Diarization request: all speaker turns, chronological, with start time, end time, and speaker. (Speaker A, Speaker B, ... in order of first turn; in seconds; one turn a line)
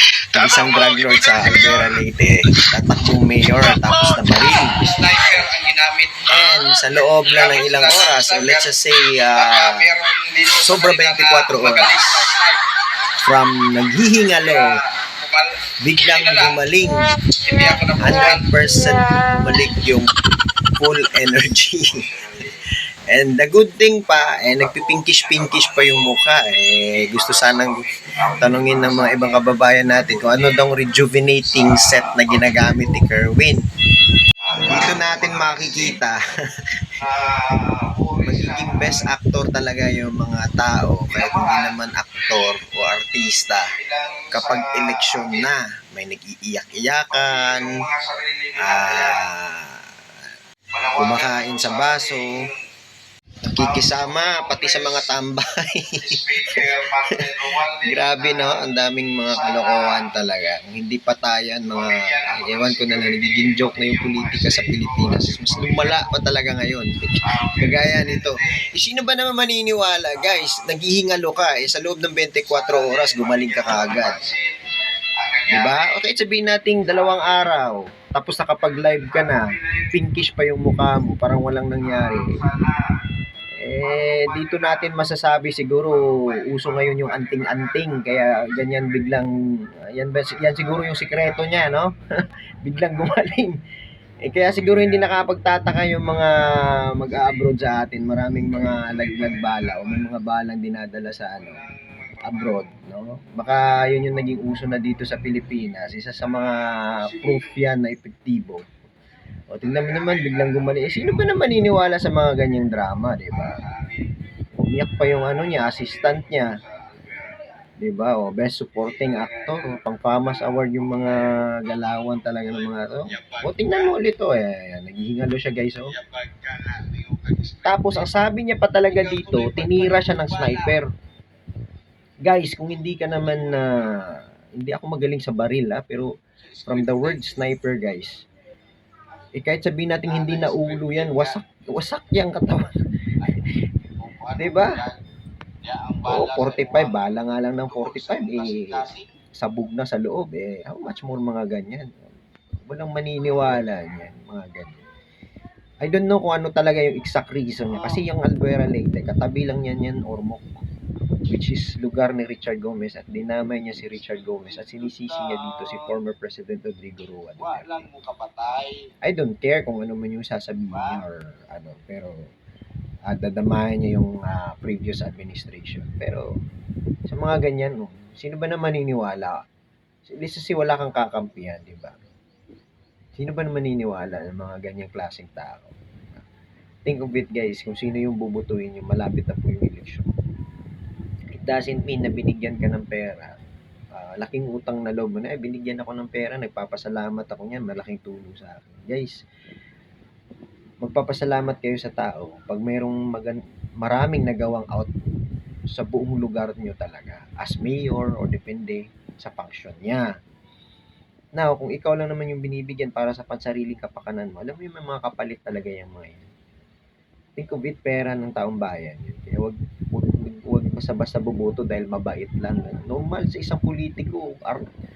Speaker A: 0.3-4.8
Speaker B: 0.3-2.0
Speaker B: 3.4-8.8
Speaker A: 6.3-9.8
Speaker B: 9.3-12.6
Speaker A: 10.6-12.2
Speaker A: 13.2-14.7
Speaker B: 14.3-16.6
Speaker A: 15.8-17.1
Speaker B: 17.4-18.5
Speaker A: 18.0-20.1
Speaker A: 20.8-22.1
Speaker B: 21.9-22.6
Speaker A: 23.1-27.8
Speaker B: 24.3-26.2
Speaker B: 26.9-29.4
Speaker A: 28.4-33.6
Speaker B: 30.1-30.8
Speaker B: 31.4-33.0
Speaker B: 34.4-36.0
Speaker A: 34.6-36.2
Speaker B: 37.0-39.1
Speaker A: 38.2-43.7
Speaker B: 41.1-42.4
Speaker B: 43.4-45.5
Speaker A: 44.3-47.7
Speaker B: 47.1-49.2
Speaker A: 48.6-49.9
Speaker B: 50.7-52.6
Speaker A: 51.0-52.4
Speaker A: 53.5-74.3
Speaker B: 53.5-55.1
Speaker B: 56.0-58.7
Speaker B: 59.3-60.1
Speaker B: 61.7-66.2
Speaker B: 67.2-68.6
Speaker B: 70.1-70.6
Speaker B: 72.4-76.0
Speaker A: 75.5-82.3
Speaker B: 76.7-77.5
Speaker B: 78.6-79.9
Speaker B: 81.8-83.0
Speaker A: 83.5-89.3
Speaker B: 83.8-84.9
Speaker B: 85.9-89.1
Speaker A: 89.9-91.9
Speaker B: 90.3-91.8
Speaker A: 92.6-93.5
Speaker B: 92.8-93.1
Speaker A: 94.2-101.6
Speaker B: 97.1-97.5
Speaker B: 98.5-100.1
Speaker B: 101.3-102.7
Speaker A: 102.2-108.7
Speaker B: 103.7-104.0
Speaker B: 106.2-107.6
Speaker A: 109.5-113.6
Speaker B: 109.6-111.8
Speaker B: 113.3-114.1
Speaker A: 114.5-116.5
Speaker B: 115.0-117.5
Speaker A: 117.8-125.9
Speaker B: 118.8-124.0
Speaker B: 125.9-128.1
Speaker A: 127.6-130.9
Speaker B: 128.9-130.8
Speaker A: 132.2-136.1
Speaker B: 133.1-133.9
Speaker B: 136.4-137.4
Speaker A: 136.6-138.2
Speaker A: 139.3-142.7
Speaker B: 140.1-141.4
Speaker B: 143.2-145.0
Speaker A: 144.4-144.7
Speaker B: 145.6-149.1
Speaker A: 146.1-152.0
Speaker A: 152.7-154.8
Speaker A: 155.8-160.5
Speaker B: 157.7-158.0
Speaker A: 161.2-167.8
Speaker B: 163.9-165.9
Speaker B: 167.4-168.8
Speaker A: 169.0-172.2
Speaker B: 170.7-171.0
Speaker A: 173.1-176.2
Speaker A: 177.1-179.4
Speaker A: 180.0-182.0
Speaker A: 183.2-186.2
Speaker A: 186.8-190.1
Speaker A: 191.3-193.4
Speaker A: 193.9-199.2
Speaker A: 200.8-204.9
Speaker A: 205.7-210.0
Speaker A: 211.4-216.3
Speaker A: 217.4-224.7